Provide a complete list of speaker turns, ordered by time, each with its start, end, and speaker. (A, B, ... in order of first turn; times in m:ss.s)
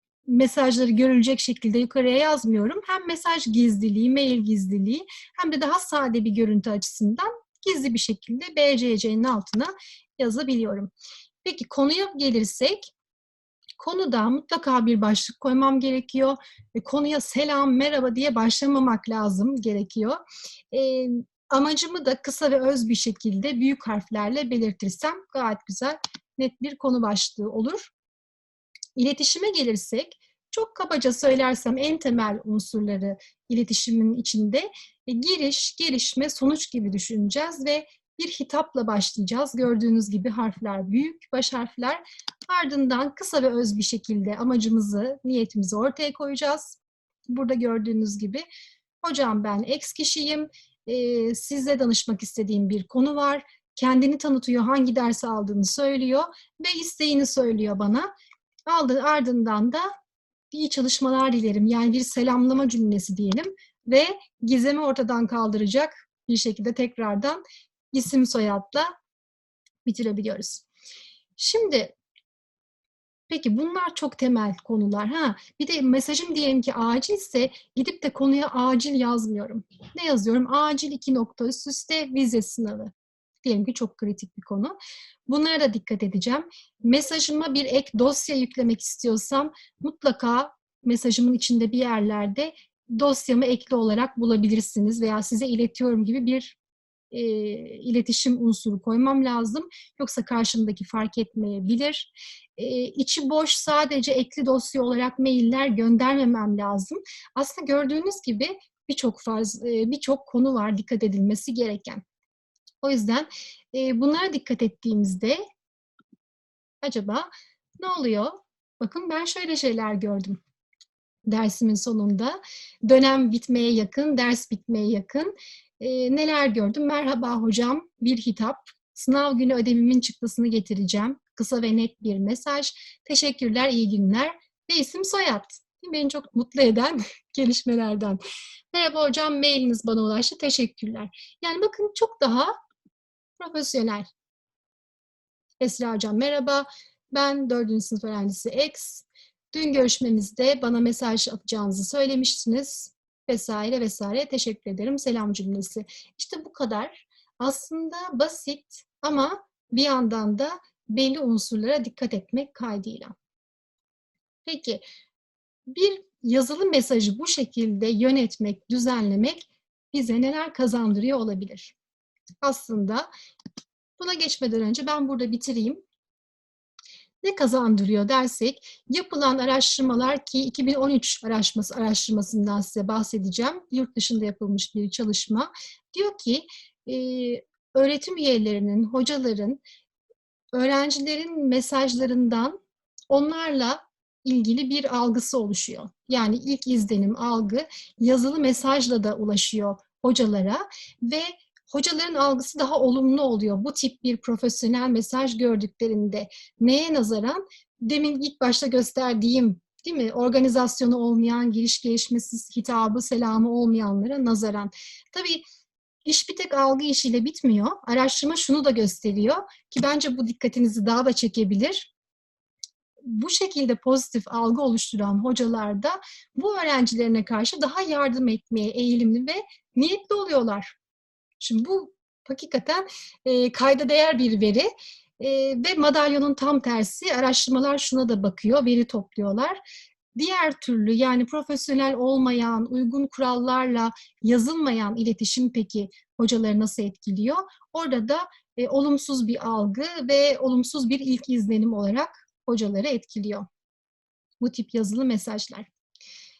0:00.2-0:10.9 A
0:11.4-0:12.9 A
0:13.8-0:20.2 A
0:20.7-0:27.9 A
0:29.0-0:48.4 A
0:49.0-0:58.1 A
0:58.7-0:59.9 A
1:00.5-1:07.4 A
1:07.9-1:08.9 A
1:09.8-1:10.6 A
1:11.4-1:11.9 A
1:13.3-1:22.9 A
1:23.4-1:36.6 A
1:37.1-1:52.0 A
1:52.8-1:55.4 A
1:56.8-2:00.4 A
2:01.3-2:18.2 A
2:18.7-2:22.6 A
2:23.4-2:24.1 A
2:25.6-2:43.1 A
2:44.4-2:44.8 A
2:45.7-2:51.7 A
2:52.4-2:53.1 A
2:54.0-2:55.8 A
2:57.2-3:09.6 A
3:10.5-3:12.6 A
3:13.1-3:35.4 A
3:36.0-3:41.9 A
3:43.0-3:50.8 A
3:51.4-3:54.7 A
3:55.2-3:59.6 A
4:00.1-4:13.4 A
4:14.4-4:15.7 A